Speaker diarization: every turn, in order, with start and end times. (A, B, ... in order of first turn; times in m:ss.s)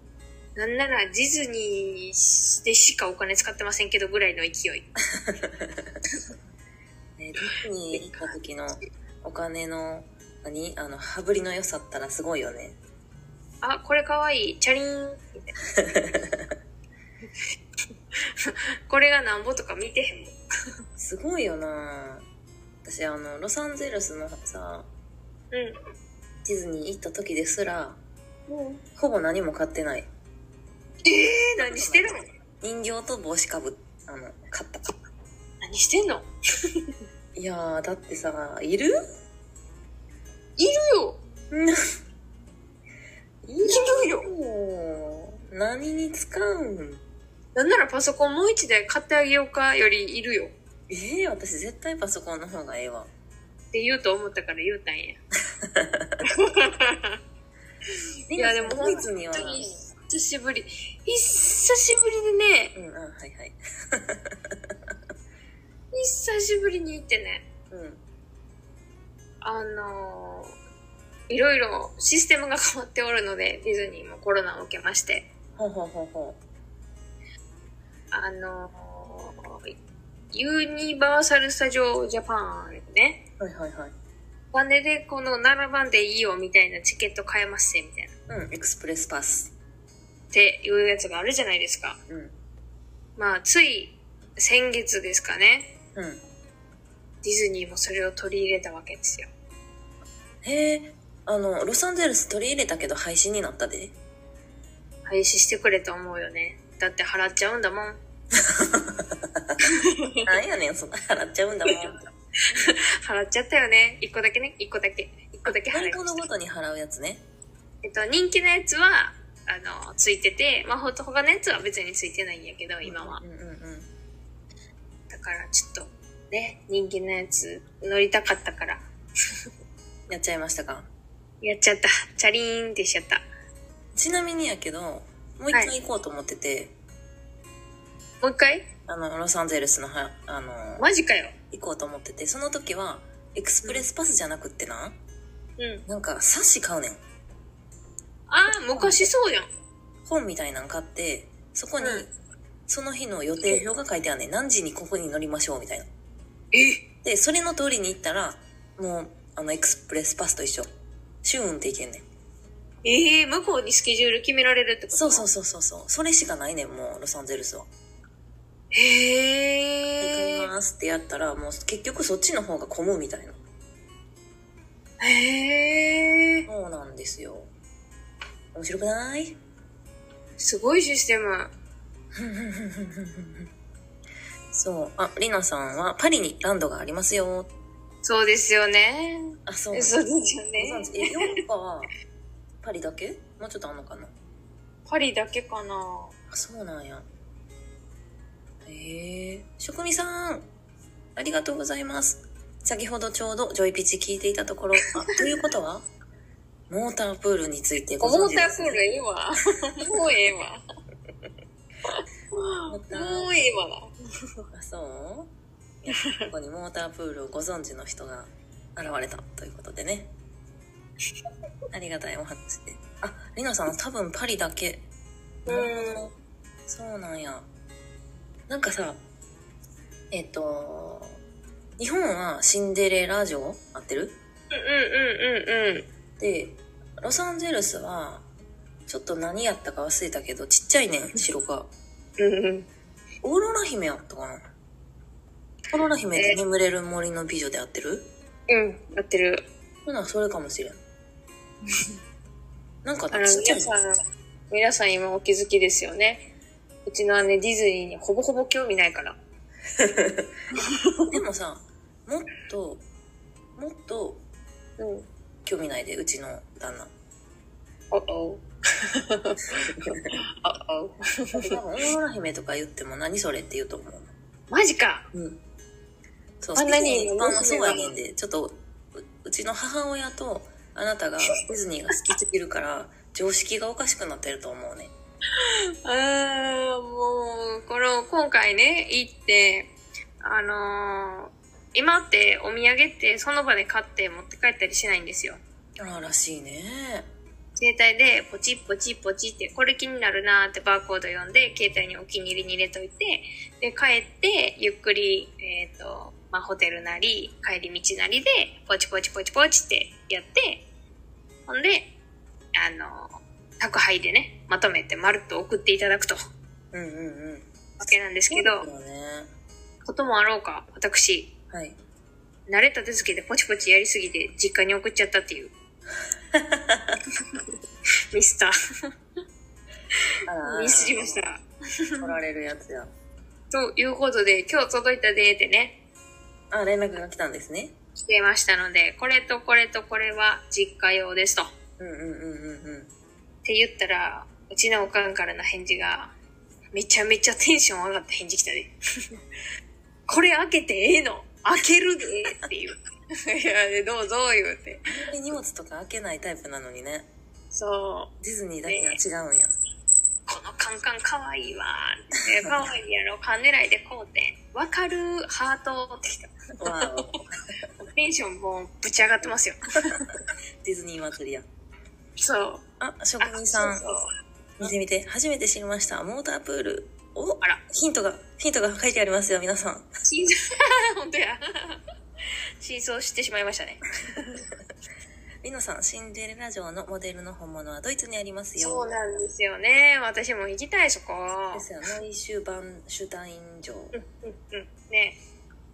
0:00.6-0:04.9 A
0:05.1-0:05.9 B
0:07.2-0:12.8 B
0:07.4-0:08.3 A
0:13.6-0:15.5 A
0:15.7-0:16.5 B
0:18.2-0:20.4 A
0:21.0-0:22.2 B
0:22.8-0:24.9 B
0:26.4-0:28.0 B
0:28.5-0:28.8 A
0:29.0-0:30.1 B
0:31.0-0:32.2 A
0:31.6-0:35.0 B
0:35.6-0:36.3 A
0:37.3-0:39.0 B
0:40.6-0:41.2 A
0:41.5-0:41.8 B
0:43.4-0:47.0 B
0:43.6-0:44.3 A
0:47.5-0:50.5 A
0:50.9-0:53.1 B
0:53.7-0:55.2 A
0:55.6-0:56.2 B
0:56.2-0:57.2 A
0:58.3-0:59.6 B
0:58.3-1:02.8 A
1:02.7-1:04.9 B
1:05.9-1:07.4 A
1:07.7-1:08.0 B
1:09.4-1:10.6 A
1:11.3-1:15.3 A
1:15.6-1:16.4 B
1:18.1-1:19.7 A
1:20.3-1:23.2 A
1:23.4-1:23.9 B
1:24.5-1:28.1 A
1:28.3-1:29.5 B
1:30.3-1:32.0 A
1:32.1-1:32.4 B
1:33.2-1:35.7 A
1:35.9-1:36.2 B
1:37.2-1:39.3 A
1:40.4-1:43.9 B
1:45.0-1:48.0 A
1:48.3-1:49.6 B
1:49.6-1:50.3 A
1:50.2-1:52.0 B
1:51.7-1:56.2 A
1:55.4-1:57.2 B
1:57.8-2:03.2 A
2:02.8-2:03.9 B
2:05.1-2:08.8 A
2:10.1-2:10.9 B
2:11.4-2:13.2 A
2:13.9-2:16.7 B
2:18.2-2:18.7 A
2:18.9-2:20.9 B
2:20.8-2:21.4 A
2:21.5-2:25.0 B
2:25.6-2:25.8 A
2:25.9-2:27.0 B
2:28.3-2:29.5 A
2:28.7-2:29.1 B
2:30.0-2:32.1 B
2:31.8-2:32.1 A
2:32.7-2:35.9 B
2:36.5-2:36.8 A
2:37.0-2:40.7 B
2:41.2-2:42.0 B
2:42.8-2:45.3 A
2:44.9-2:47.7 B
2:48.7-2:50.5 A
2:50.0-2:53.4 B
2:55.0-2:56.4 A
2:56.4-2:57.5 B
2:58.5-2:59.4 B
3:00.4-3:01.5 A
3:02.1-3:03.5 B
3:04.5-3:07.5 B
3:08.0-3:11.4 A
3:09.4-3:10.0 B
3:10.6-3:11.9 B
3:12.6-3:14.1 B
3:14.8-3:16.1 A
3:16.3-3:17.1 B
3:18.6-3:20.5 B
3:21.2-3:25.9 B
3:26.7-3:28.8 B
3:28.0-3:30.6 A
3:31.9-3:33.9 A
3:32.7-3:33.3 B
3:34.5-3:40.1 B
3:35.9-3:36.3 A
3:41.7-3:44.8 B
3:45.4-3:46.0 A
3:45.5-3:46.1 B
3:46.7-3:47.5 B
3:48.5-3:49.0 B
3:50.1-3:51.2 B
3:51.8-3:54.2 B
3:54.5-3:55.9 A
3:56.2-3:58.3 B
3:58.9-4:01.7 B
4:02.2-4:02.7 A
4:03.2-4:04.5 B
4:05.7-4:08.1 B
4:08.5-4:09.4 A
4:09.8-4:10.8 B
4:12.8-4:13.7 B
4:13.1-4:14.0 A
4:14.5-4:16.3 A
4:16.8-4:19.2 A
4:19.8-4:20.3 B
4:20.5-4:21.1 A
4:21.1-4:22.8 B
4:23.6-4:24.2 B
4:24.8-4:25.1 A
4:25.4-4:26.9 B
4:27.9-4:31.6 A
4:29.7-4:30.1 B
4:31.3-4:34.1 B
4:34.5-4:35.1 A
4:35.1-4:35.4 B
4:36.4-4:44.9 B
4:36.6-4:37.9 A
4:45.4-4:55.4 A
4:55.8-4:57.1 B
4:57.6-5:10.6 A
5:11.5-5:11.9 A
5:12.5-5:16.2 A
5:16.7-5:17.5 B
5:17.8-5:18.7 A
5:18.3-5:19.3 B
5:19.8-5:21.3 A
5:21.5-5:21.8 B
5:22.5-5:25.5 A
5:26.3-5:27.0 B
5:28.1-5:28.5 A
5:30.3-5:31.2 B
5:30.4-5:32.1 A
5:32.0-5:32.9 B
5:33.5-5:35.8 A
5:36.5-5:37.7 B
5:38.0-5:41.5 A
5:41.8-5:42.9 B
5:43.4-5:46.1 A
5:46.7-5:48.7 A
5:50.1-5:55.0 A
5:54.9-5:57.1 B
5:57.5-5:58.1 A
5:58.2-5:59.5 B
5:58.6-5:59.0 A
6:00.3-6:07.2 A
6:02.4-6:02.7 B
6:06.6-6:07.3 B
6:07.8-6:10.1 A
6:10.6-6:11.4 B
6:12.2-6:12.6 A
6:12.8-6:13.8 B
6:13.2-6:14.1 A
6:14.6-6:19.9 B
6:20.0-6:21.8 A
6:22.6-6:24.4 A
6:25.4-6:28.9 B
6:28.6-6:31.7 A
6:31.5-6:34.0 B
6:33.9-6:35.2 A